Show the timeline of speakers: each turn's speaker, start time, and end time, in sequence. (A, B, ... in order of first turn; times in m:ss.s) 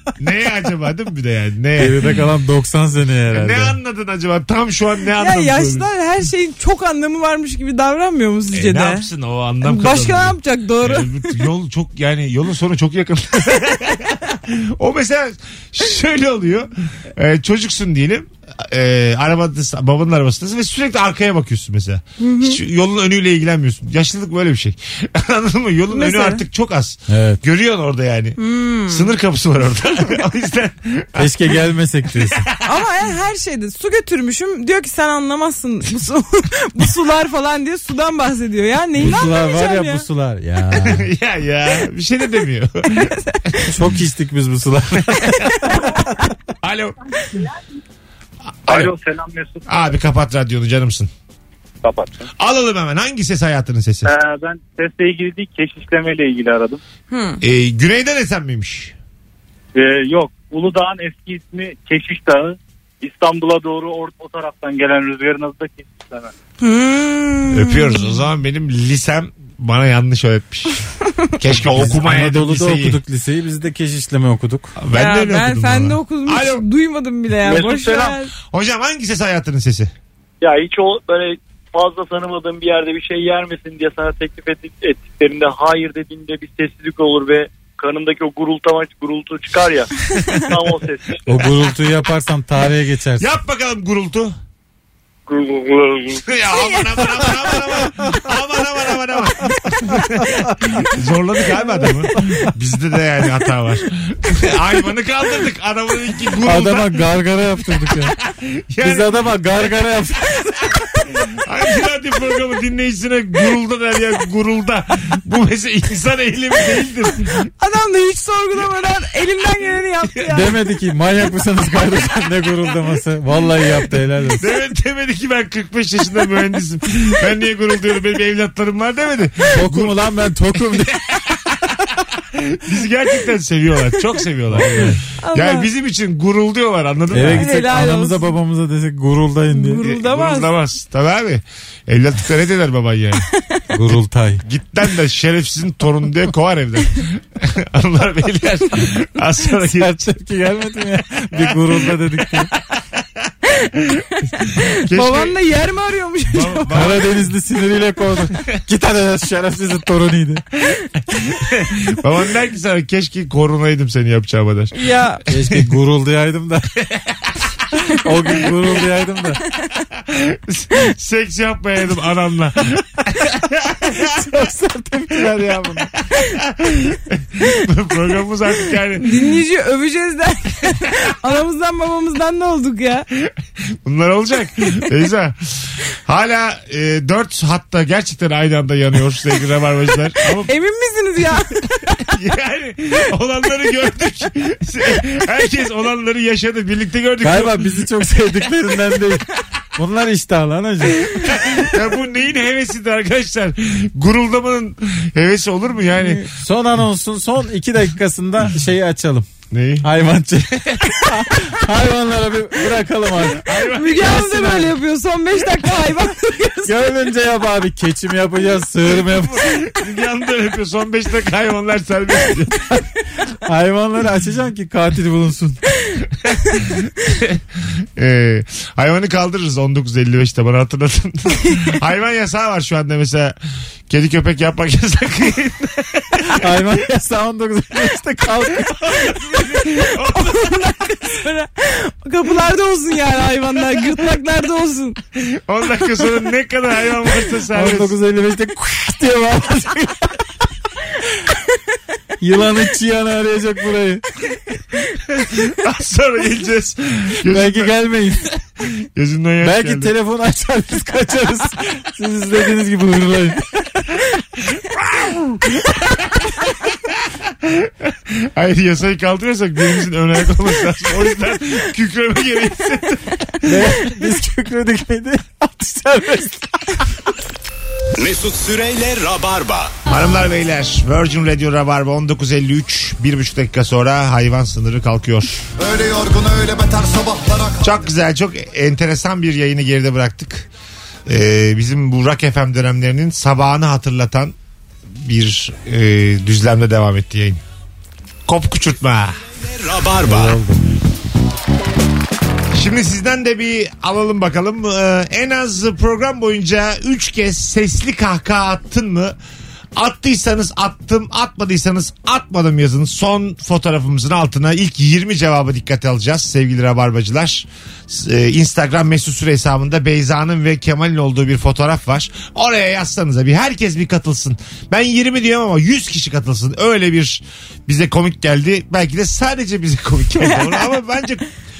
0:00.2-0:02.1 A
0:01.8-0:03.8 B
0:03.3-0:05.9 A
0:05.2-0:09.1 C
0:08.5-0:31.3 A
0:09.6-0:11.4 C
0:22.2-0:22.6 C
0:25.9-0:26.4 C
0:27.1-0:27.4 B
0:28.4-0:29.1 C
0:31.2-0:32.4 B
0:32.6-0:40.0 C
0:39.0-0:41.1 B
0:40.8-0:43.6 A
0:42.9-0:43.6 C
0:43.7-0:45.1 B
0:45.0-0:45.7 A
0:46.6-0:46.9 A
0:48.7-0:48.9 A
0:48.7-0:49.6 D
0:49.7-0:51.1 A
0:51.8-0:52.2 D
0:52.4-0:54.1 A
0:54.0-0:56.8 D
0:57.1-0:57.4 C
0:57.4-0:58.9 A
0:59.7-1:06.3 D
1:06.6-1:08.2 C
1:07.5-1:13.0 A
1:11.6-1:14.7 B
1:14.8-1:16.6 A
1:14.9-1:18.3 C
1:17.4-1:18.2 D
1:18.5-1:19.9 A
1:20.4-1:29.9 D
1:30.4-1:31.2 D
1:31.3-1:33.3 B
1:33.2-1:34.3 A
1:35.3-1:36.2 D
1:36.3-1:47.0 A
1:36.5-1:37.5 C
1:46.4-1:48.1 B
1:48.3-1:49.1 A
1:48.8-1:50.6 B
1:51.4-1:57.5 A
1:57.5-2:00.5 C
2:00.3-2:04.4 B
2:04.4-2:10.0 A
2:09.5-2:11.0 B
2:10.7-2:11.5 A
2:12.3-2:17.5 A
2:14.5-2:15.0 B
2:15.2-2:15.7 C
2:17.1-2:19.8 B
2:17.2-2:18.3 C
2:19.5-2:20.5 C
2:19.8-2:23.3 A
2:23.3-2:23.6 C
2:23.7-2:24.4 B
2:24.4-2:30.1 A
2:29.7-2:32.5 B
2:31.3-2:31.7 A
2:33.5-2:37.0 C
2:33.9-2:35.3 A
2:36.3-2:37.3 A
2:36.7-2:40.4 B
2:40.7-2:44.8 A
2:44.7-2:45.2 C
2:45.3-2:46.7 B
2:46.8-2:47.2 A
2:48.0-2:49.4 B
2:50.0-2:54.0 A
2:54.0-2:55.9 B
2:55.3-2:55.7 A
2:56.2-2:59.3 A
2:59.0-3:03.1 C
3:03.8-3:10.5 A
3:10.4-3:12.0 C
3:12.1-3:18.2 A
3:17.2-3:19.2 B
3:19.8-3:21.2 B
3:21.0-3:26.3 A
3:26.4-3:29.3 B
3:29.5-3:29.9 A
3:29.8-3:33.4 B
3:30.6-3:31.0 A
3:33.4-3:34.2 A
3:33.6-3:36.7 C
3:34.0-3:34.7 B
3:36.6-3:39.6 B
3:38.9-3:42.8 A
3:43.4-3:45.6 B
3:46.6-3:47.4 A
3:48.0-3:53.4 A
3:53.9-3:56.4 A
3:56.4-3:58.7 B
3:58.6-4:00.7 A
3:59.8-4:05.0 C
4:05.1-4:07.9 A
4:07.5-4:10.2 B
4:12.2-4:14.0 B
4:15.0-4:17.7 A
4:17.3-4:18.3 B
4:18.9-4:19.9 A
4:19.4-4:23.7 B
4:24.5-4:33.7 A
4:33.4-4:36.8 B
4:38.0-4:39.7 E
4:39.9-4:45.4 A
4:47.6-4:50.5 A
4:51.1-4:54.3 A
4:55.0-4:57.4 A
4:58.3-4:59.2 A
4:59.4-5:00.4 E
5:00.0-5:00.6 B
5:02.5-5:09.2 A
5:09.8-5:31.3 A
5:30.1-5:30.7 C